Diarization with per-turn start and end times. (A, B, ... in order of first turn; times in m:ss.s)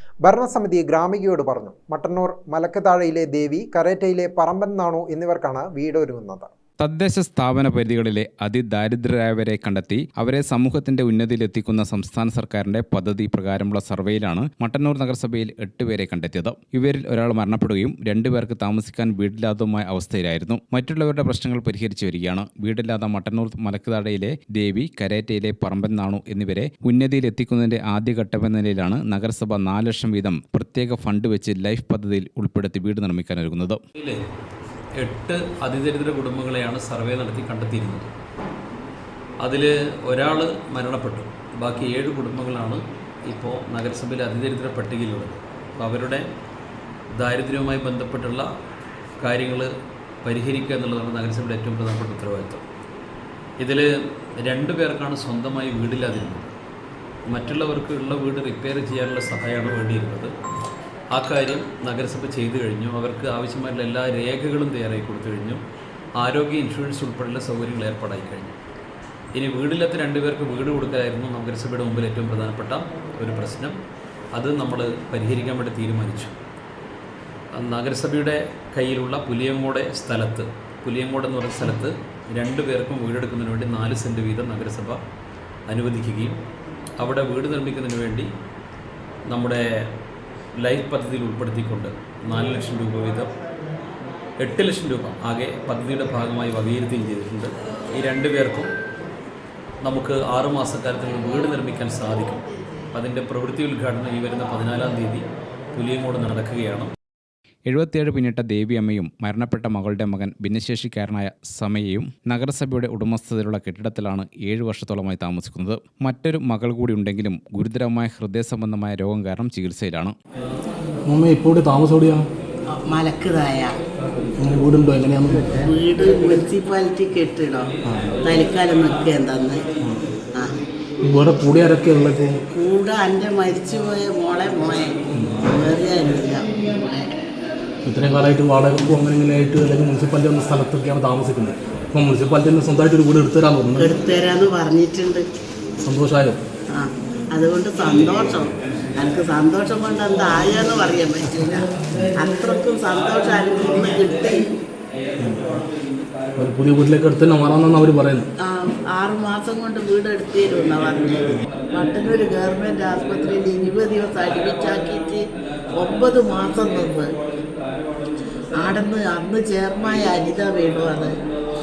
0:00.2-0:06.5 A
0:06.8-0:33.8 B
0:35.0-0:38.1 C
0:39.4-0:46.3 C
0:47.1-0:48.5 C
0:49.2-0:49.7 C
0:50.2-0:52.6 C
0:53.6-0:53.9 C
0:54.4-0:56.5 C
0:57.3-1:00.3 C
1:01.1-1:05.6 C
1:06.2-1:08.6 C
1:09.4-1:13.8 C
1:14.3-1:16.3 C
1:17.5-1:25.0 C
1:25.7-1:26.4 C
1:27.0-1:28.3 C
1:29.3-1:29.9 C
1:30.6-1:33.3 C
1:34.4-1:38.7 C
1:39.8-1:42.4 C
1:42.9-1:46.9 C
1:47.7-2:00.1 B
2:01.1-2:02.3 D
2:02.7-2:03.8 E
2:04.4-2:05.5 D
2:05.6-2:07.7 E
2:08.2-2:09.6 E
2:11.0-2:12.4 D
2:12.5-2:17.1 E
2:17.8-2:23.9 D
2:23.8-2:25.3 E
2:25.8-2:26.4 D
2:26.7-2:34.5 E
2:36.4-2:38.3 D
2:38.4-2:47.2 E
2:48.6-2:51.2 E